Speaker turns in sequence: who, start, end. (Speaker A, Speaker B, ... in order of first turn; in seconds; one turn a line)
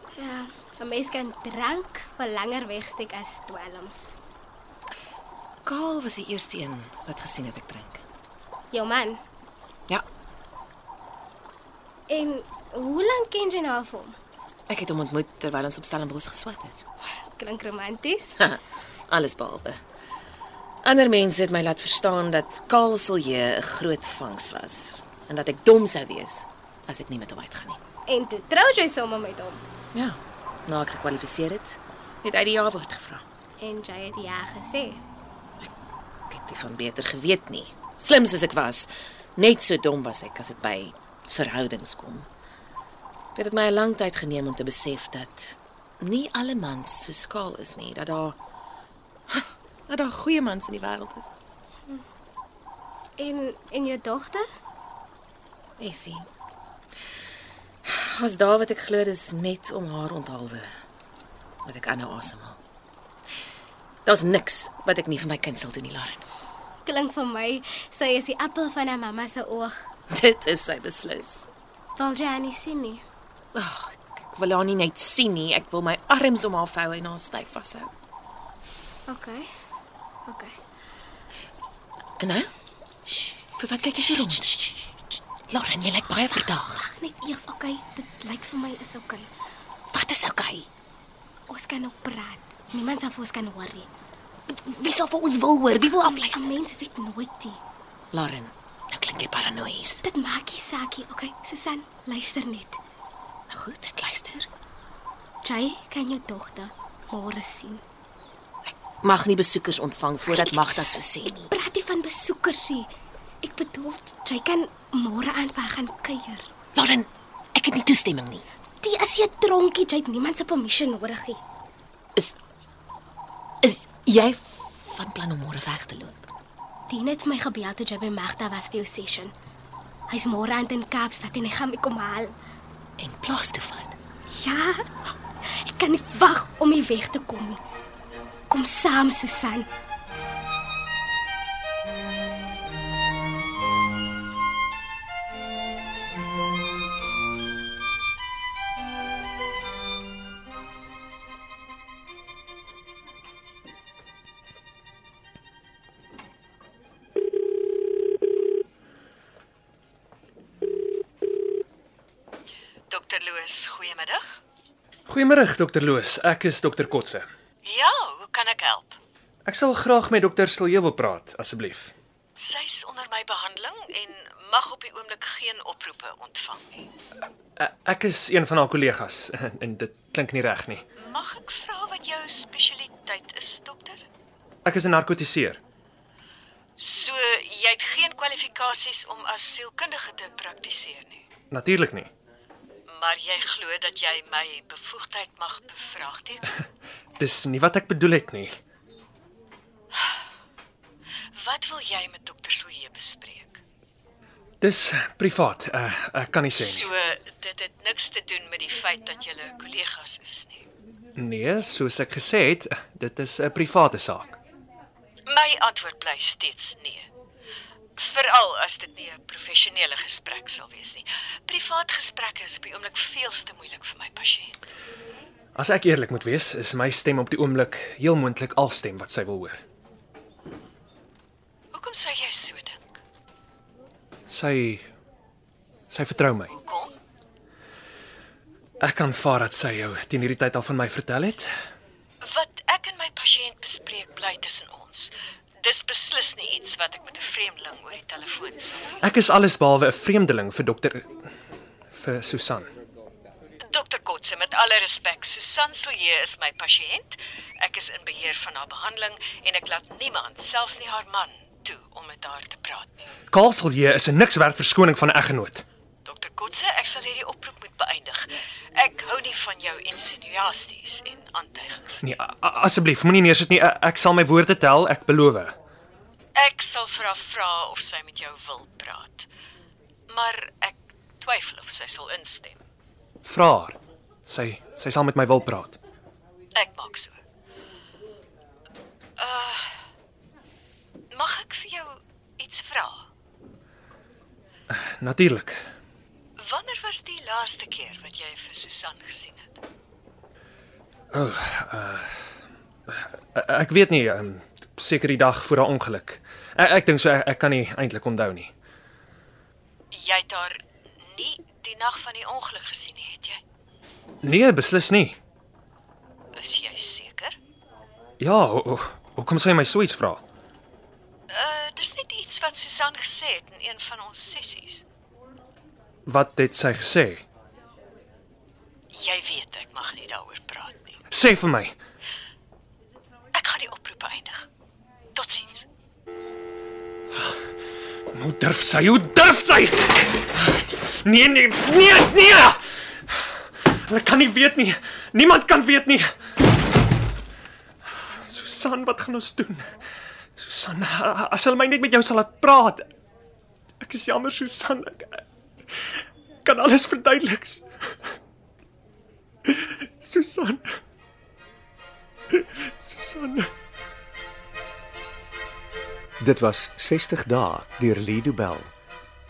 Speaker A: 0.1-4.2
Speaker B: 5.7-8.0
Speaker A: 8.7-9.2
Speaker A: 12.1-14.1
Speaker B: 14.7-16.8
Speaker A: 17.4-18.4
Speaker B: 18.4-19.8
Speaker B: 20.8-27.8
Speaker A: 28.1-29.6
Speaker B: 29.9-33.2
Speaker A: 33.6-35.0
Speaker B: 36.3-42.2
Speaker B: 43.3-48.4
Speaker B: 49.3-51.3
Speaker A: 53.2-54.4
Speaker B: 55.8-56.2
Speaker B: 57.8-60.7
Speaker B: 61.6-62.6
Speaker B: 64.0-66.2
Speaker A: 66.8-69.8
Speaker B: 70.1-71.5
Speaker A: 72.0-73.0
Speaker B: 73.5-77.9
Speaker A: 79.1-79.5
Speaker A: 80.3-80.5
Speaker B: 82.2-82.5
Speaker B: 83.6-84.6
Speaker B: 85.5-86.8
Speaker A: 86.6-89.3
Speaker B: 89.9-90.7
Speaker A: 91.5-93.9
Speaker B: 94.5-96.5
Speaker A: 96.3-97.6
Speaker B: 98.1-100.0
Speaker A: 100.0-102.8
Speaker B: 103.5-104.5
Speaker A: 105.4-107.8
Speaker B: 108.6-111.5
Speaker A: 111.4-112.9
Speaker A: 113.4-116.5
Speaker B: 116.7-118.4
Speaker A: 118.8-121.4
Speaker B: 123.6-126.2
Speaker A: 126.9-129.3
Speaker A: 130.1-132.3
Speaker B: 133.0-133.9
Speaker A: 134.3-137.6
Speaker A: 138.5-139.7
Speaker C: 162.9-164.4
Speaker D: 165.1-167.2
Speaker C: 167.6-169.0
Speaker D: 169.4-171.9
Speaker C: 172.4-176.9
Speaker D: 177.6-180.8
Speaker C: 181.0-184.0
Speaker D: 184.6-185.6
Speaker C: 186.8-191.3
Speaker D: 191.5-192.1
Speaker C: 192.9-196.6
Speaker D: 197.2-198.6
Speaker C: 201.3-203.6
Speaker D: 204.6-206.9
Speaker C: 206.5-210.7
Speaker D: 211.2-214.4
Speaker C: 215.3-217.1
Speaker C: 218.0-224.6
Speaker D: 225.6-229.6
Speaker C: 231.7-232.9
Speaker D: 234.3-234.8
Speaker D: 235.9-236.5
Speaker C: 236.5-237.0
Speaker D: 238.8-241.5
Speaker C: 242.2-249.0
Speaker D: 249.0-251.1
Speaker D: 251.9-252.7
Speaker C: 253.7-263.1
Speaker D: 263.3-265.6
Speaker C: 266.0-272.1
Speaker D: 272.0-275.5
Speaker C: 276.3-279.3
Speaker C: 280.1-282.6
Speaker D: 283.2-285.8
Speaker C: 286.5-287.2
Speaker C: 289.2-289.8
Speaker C: 291.1-293.1
Speaker D: 294.7-295.6
Speaker C: 296.4-299.6
Speaker D: 301.1-302.2
Speaker D: 302.9-308.5
Speaker C: 309.9-313.4
Speaker D: 314.2-315.2
Speaker C: 316.3-317.4
Speaker D: 318.2-320.2
Speaker C: 321.3-324.8
Speaker D: 326.1-327.2
Speaker C: 328.9-331.0
Speaker D: 331.1-331.8
Speaker C: 333.3-334.4
Speaker C: 335.1-335.7
Speaker D: 338.1-346.1
Speaker D: 348.2-349.7
Speaker D: 350.4-352.9
Speaker D: 353.8-355.2
Speaker D: 356.4-357.6
Speaker D: 359.4-360.6
Speaker D: 362.3-363.5
Speaker E: 366.2-368.7